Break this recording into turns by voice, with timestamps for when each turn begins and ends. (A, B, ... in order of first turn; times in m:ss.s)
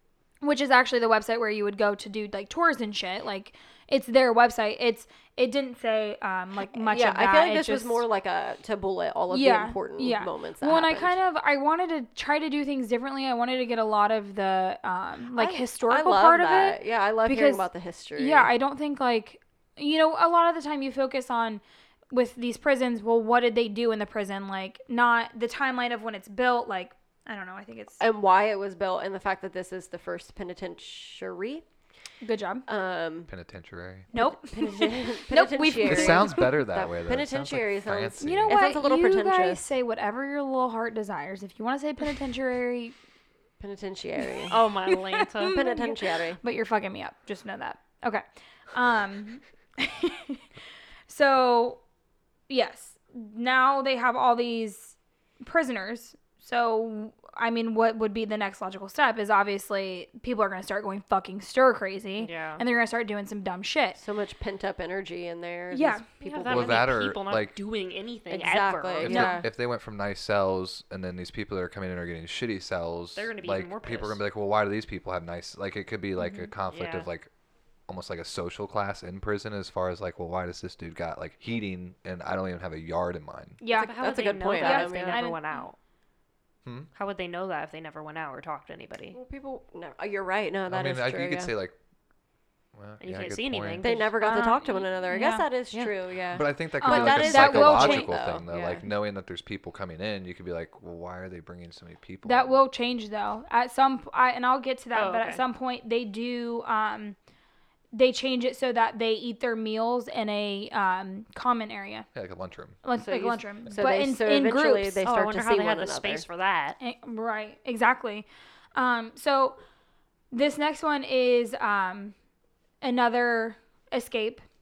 0:00.4-0:08.0 A
0:06.7-0:11.2 B
0:09.3-0:17.6 A
0:15.4-0:18.5 B
0:18.2-0:28.0 A
0:28.0-0:31.6 B
0:32.2-0:32.7 A
0:32.7-0:33.3 B
0:33.3-0:34.1 C
0:34.1-0:36.5 A
0:34.1-0:39.7 B
0:35.8-0:38.6 C
0:38.2-0:43.0 A
0:43.6-0:44.6 B
0:44.5-0:45.6 D
0:44.9-0:50.4 A
0:45.5-0:46.4 B
0:51.1-0:51.8 A
0:52.5-1:04.0 A
1:02.2-1:02.6 D
1:04.0-1:06.9 B
1:05.7-1:06.1 A
1:06.2-1:09.4 D
1:06.5-1:07.6 C
1:08.3-1:09.5 B
1:09.0-1:17.3 C
1:09.1-1:09.4 A
1:13.2-1:14.2 D
1:16.2-1:16.5 A
1:16.7-1:17.1 D
1:17.9-1:23.6 C
1:23.6-1:25.6 A
1:23.7-1:25.8 D
1:23.7-1:25.3 B
1:26.6-1:26.9 C
1:27.0-1:29.2 D
1:29.1-1:31.5 B
1:30.7-1:31.8 C
1:32.8-1:33.9 C
1:33.0-1:34.4 D
1:33.8-1:38.8 B
1:34.2-1:35.5 A
1:36.3-1:42.6 C
1:36.8-1:38.2 A
1:42.2-1:47.2 A
1:44.9-1:45.4 D
1:47.9-1:52.1 A
1:52.1-1:52.8 C
1:52.8-1:55.0 A
1:53.0-1:56.3 B
1:55.0-1:56.8 D
1:56.8-1:59.6 A
2:00.3-2:02.1 A
2:02.8-2:04.4 A